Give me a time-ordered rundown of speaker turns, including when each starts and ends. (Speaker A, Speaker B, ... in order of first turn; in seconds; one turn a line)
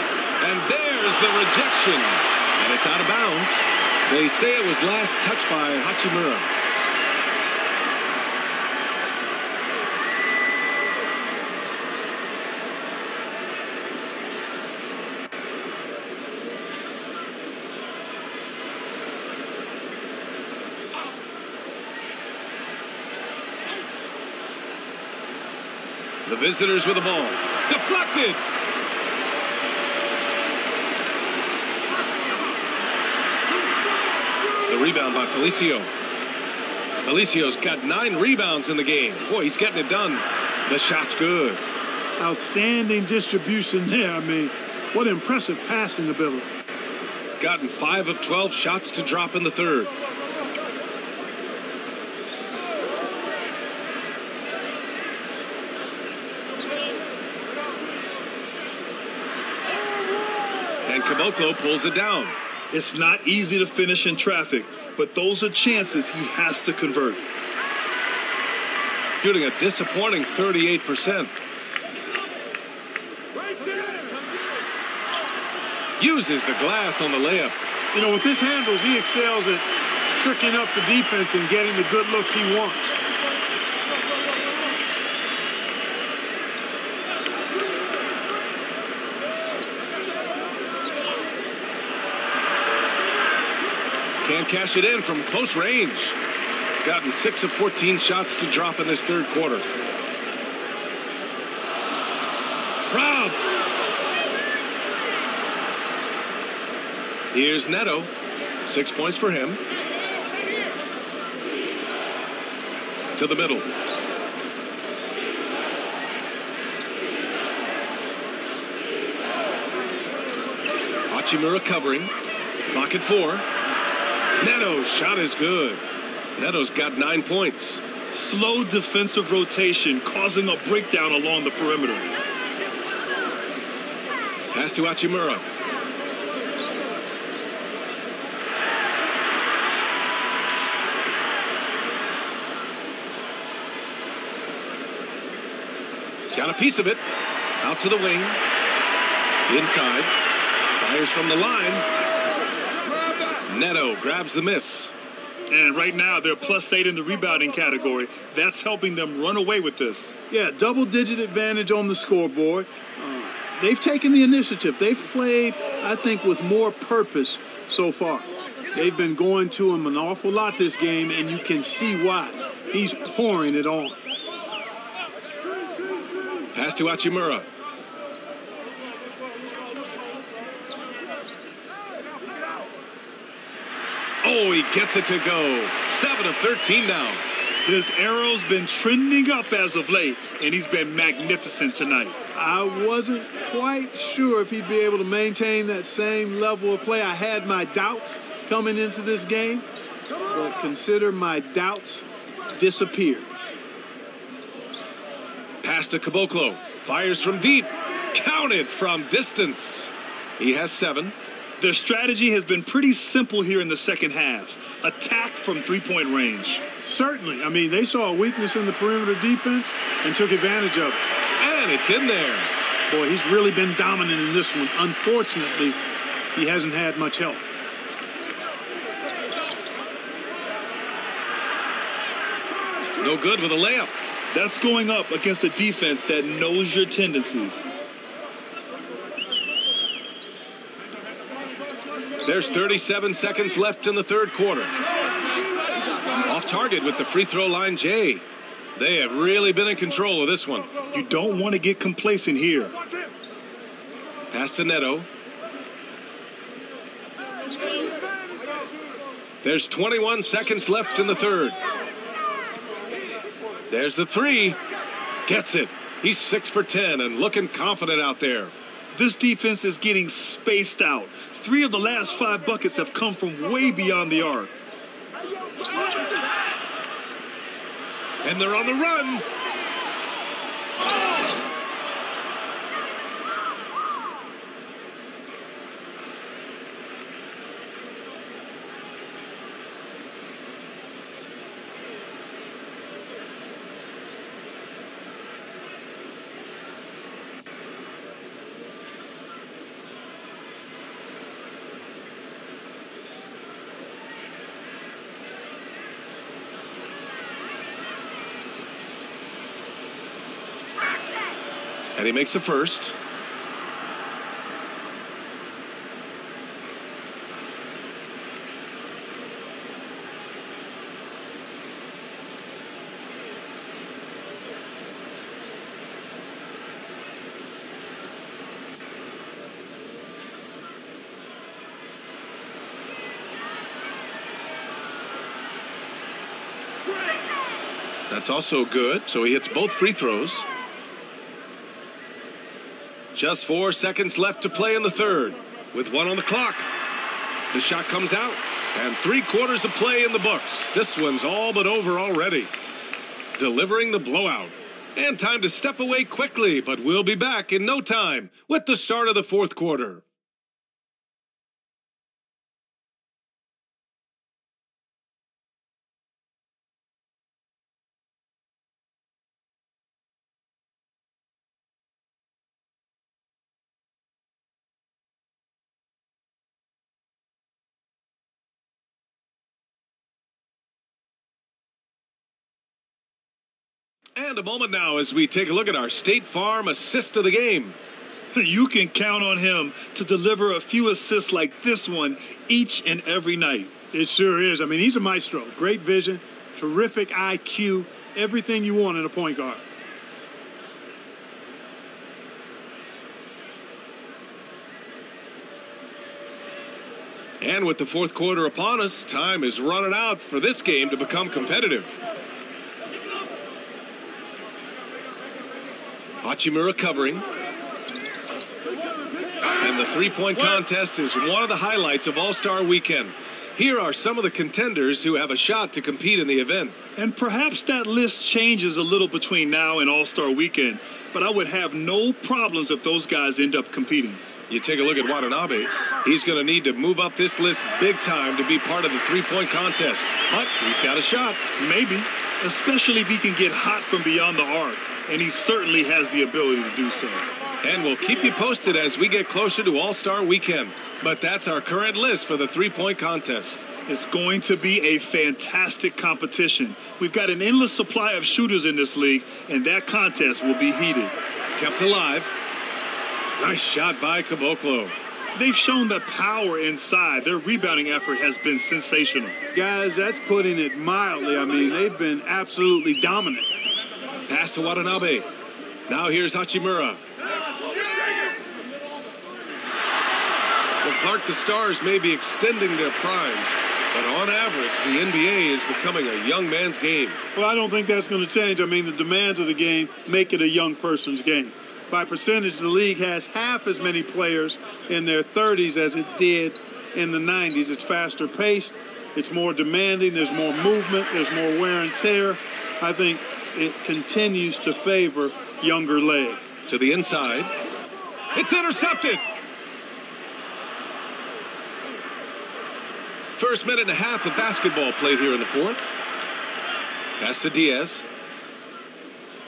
Speaker A: 0.4-6.5
Speaker A: 26.2-28.4
Speaker A: 34.6-35.9
Speaker A: 37.0-41.6
Speaker B: 42.2-46.5
Speaker A: 47.4-49.9
Speaker A: 60.8-62.4
Speaker C: 62.7-67.2
Speaker A: 69.2-71.3
Speaker A: 76.0-77.5
Speaker B: 77.9-83.0
Speaker A: 94.2-96.2
Speaker A: 96.8-99.7
Speaker A: 102.9-103.5
Speaker A: 107.3-108.1
Speaker A: 108.6-109.6
Speaker A: 113.1-113.7
Speaker A: 121.1-122.1
Speaker A: 122.7-123.5
Speaker A: 124.4-125.8
Speaker A: 126.3-127.8
Speaker C: 128.1-132.1
Speaker A: 134.5-135.4
Speaker A: 146.3-147.0
Speaker A: 147.6-148.4
Speaker A: 149.5-150.1
Speaker A: 150.8-151.8
Speaker A: 153.4-154.9
Speaker C: 155.5-160.1
Speaker B: 160.3-174.0
Speaker A: 176.5-177.5
Speaker A: 184.2-187.2
Speaker C: 187.6-192.2
Speaker B: 192.3-199.6
Speaker B: 200.3-203.3
Speaker A: 205.6-211.2
Speaker C: 211.6-216.6
Speaker B: 216.8-221.0
Speaker A: 221.4-222.5
Speaker B: 222.9-225.8
Speaker B: 226.3-227.4
Speaker A: 233.0-233.9
Speaker C: 234.3-237.7
Speaker A: 242.2-244.7
Speaker A: 246.2-248.2
Speaker A: 248.8-250.7
Speaker C: 250.9-252.7
Speaker A: 254.3-255.1
Speaker A: 259.4-261.6
Speaker A: 263.7-264.6
Speaker A: 265.2-268.5
Speaker C: 268.9-274.5
Speaker A: 278.2-279.2
Speaker A: 311.9-312.9
Speaker A: 338.1-340.5
Speaker A: 343.1-346.7
Speaker A: 347.5-352.5
Speaker A: 353.4-360.0
Speaker A: 384.1-387.8
Speaker C: 388.3-393.7
Speaker B: 393.9-399.6
Speaker A: 407.4-412.0
Speaker A: 416.2-417.2
Speaker A: 419.6-426.8
Speaker C: 427.0-434.2
Speaker A: 434.5-441.4
Speaker C: 441.6-447.2
Speaker A: 447.6-453.7
Speaker C: 453.9-461.1
Speaker A: 461.5-462.3
Speaker A: 463.4-464.9
Speaker C: 465.3-469.4
Speaker B: 469.5-473.5
Speaker A: 474.3-475.3
Speaker A: 475.9-477.0
Speaker A: 480.8-487.2
Speaker B: 487.3-506.5
Speaker A: 506.7-507.5
Speaker A: 508.3-509.2
Speaker A: 513.4-516.0
Speaker A: 517.2-518.0